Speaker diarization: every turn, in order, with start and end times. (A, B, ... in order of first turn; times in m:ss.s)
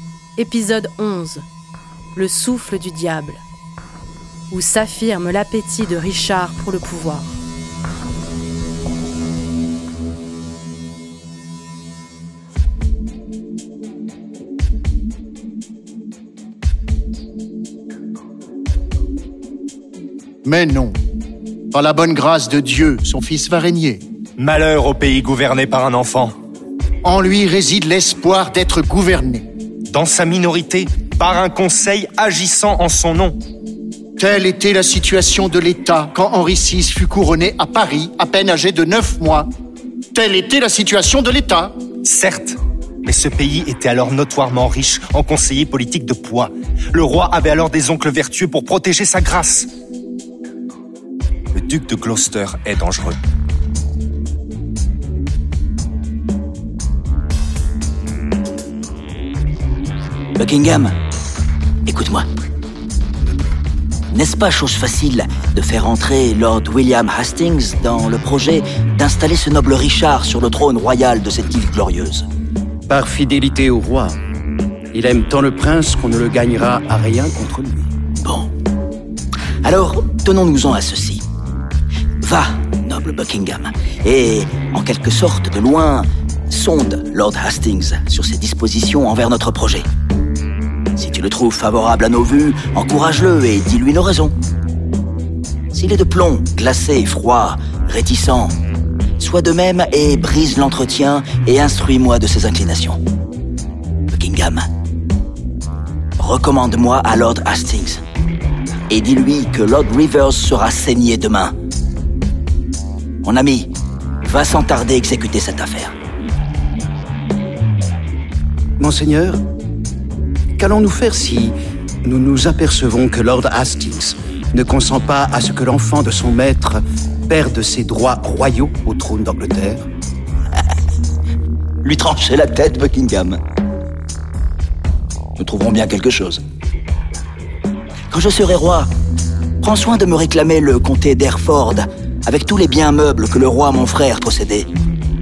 0:00.4-0:01.4 A
0:02.1-0:03.4 A
0:04.5-0:07.4 A
0:20.4-0:21.0 B
0:21.7-0:24.0 B
0:24.4-0:26.3 C
0:27.0-0:29.5 B
0:29.9-0:33.4 C
0:34.2-0:39.5 B
0:40.1-0:41.8 B
0:42.0-0:49.7 C
0:51.5-0:53.2 C
1:00.4-1:00.9 D
1:01.9-1:02.2 D
1:04.1-1:12.2 D
1:12.9-1:14.2 E
1:14.9-1:17.9 E
1:18.2-1:18.5 D
1:19.6-1:21.2 D
1:22.2-1:29.9 D
1:30.9-1:34.3 D
1:35.7-1:38.6 D
1:39.2-1:43.0 D
1:44.1-1:44.7 D
1:46.2-1:48.0 D
1:48.9-1:51.5 D
1:53.2-1:55.9 D
1:58.8-1:59.4 E
2:00.6-2:09.9 E
2:11.8-2:13.4 D
2:15.4-2:16.4 D
2:18.1-2:18.9 D
2:19.6-2:24.7 D